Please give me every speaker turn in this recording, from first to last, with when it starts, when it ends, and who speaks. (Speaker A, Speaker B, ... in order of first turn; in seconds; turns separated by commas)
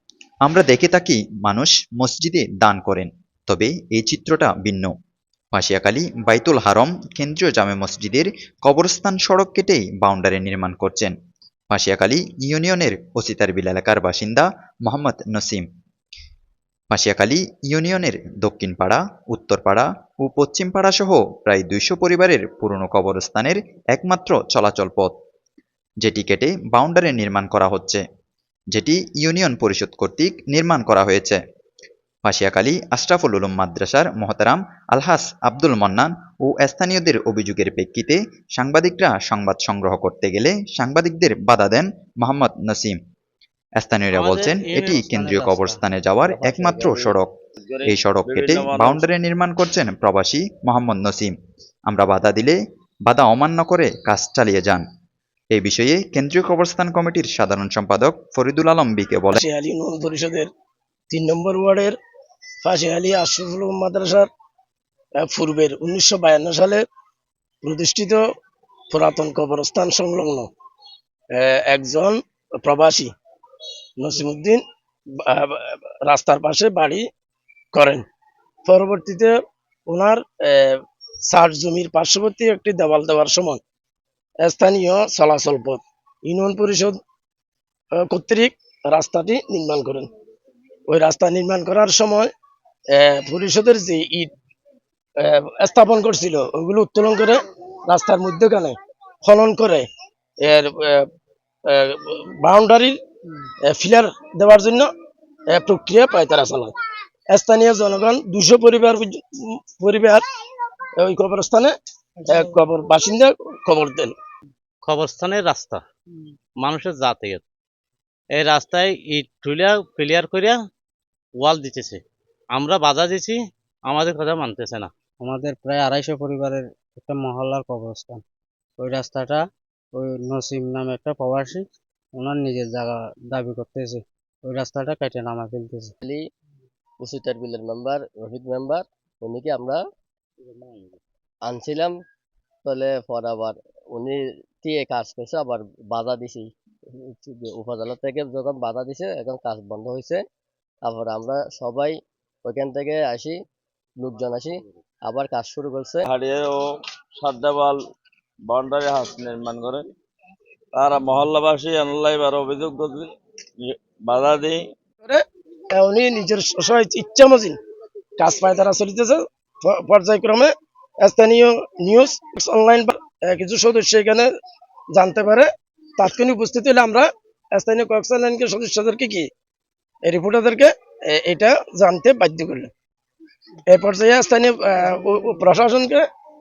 Speaker A: 0.4-4.9, Speaker A: 5.5-11.2, Speaker A: 11.7-15.7, Speaker A: 16.9-25.1, Speaker A: 26.0-28.0, Speaker A: 28.7-31.4, Speaker A: 32.3-43.0, Speaker A: 43.8-47.3, Speaker B: 44.1-45.0, Speaker C: 44.9-46.9, Speaker D: 47.1-49.1, Speaker A: 47.9-51.3, Speaker A: 51.9-54.9, Speaker A: 55.5-59.4, Speaker E: 59.3-60.5, Speaker E: 61.1-62.0, Speaker E: 62.6-64.3, Speaker E: 65.2-66.8, Speaker E: 67.6-68.2, Speaker E: 68.9-70.5, Speaker E: 71.3-73.1, Speaker E: 74.0-74.6, Speaker E: 75.2-77.1, Speaker E: 77.7-78.0, Speaker E: 78.7-79.3, Speaker E: 79.9-83.6, Speaker E: 84.4-87.0, Speaker E: 88.0-90.1, Speaker E: 90.9-92.3, Speaker E: 92.9-94.3, Speaker E: 95.2-99.9, Speaker E: 100.4-101.1, Speaker E: 101.7-103.0, Speaker E: 103.7-104.9, Speaker E: 105.5-106.7, Speaker E: 107.3-110.2, Speaker E: 111.0-111.7, Speaker E: 112.3-114.2, Speaker B: 114.8-115.8, Speaker B: 116.6-117.4, Speaker B: 118.4-120.6, Speaker B: 121.4-122.0, Speaker B: 122.5-124.9, Speaker C: 125.2-128.2, Speaker C: 128.8-131.6, Speaker C: 132.2-135.9, Speaker F: 137.0-139.8, Speaker F: 141.5-142.0, Speaker F: 142.7-150.2, Speaker F: 150.9-153.4, Speaker F: 154.0-156.1, Speaker D: 156.1-157.8, Speaker D: 158.5-159.9, Speaker D: 160.7-163.1, Speaker D: 163.6-164.7, Speaker E: 165.0-167.6, Speaker E: 168.2-170.5, Speaker E: 171.0-174.3, Speaker E: 174.9-179.3, Speaker E: 180.1-182.7, Speaker E: 183.7-186.1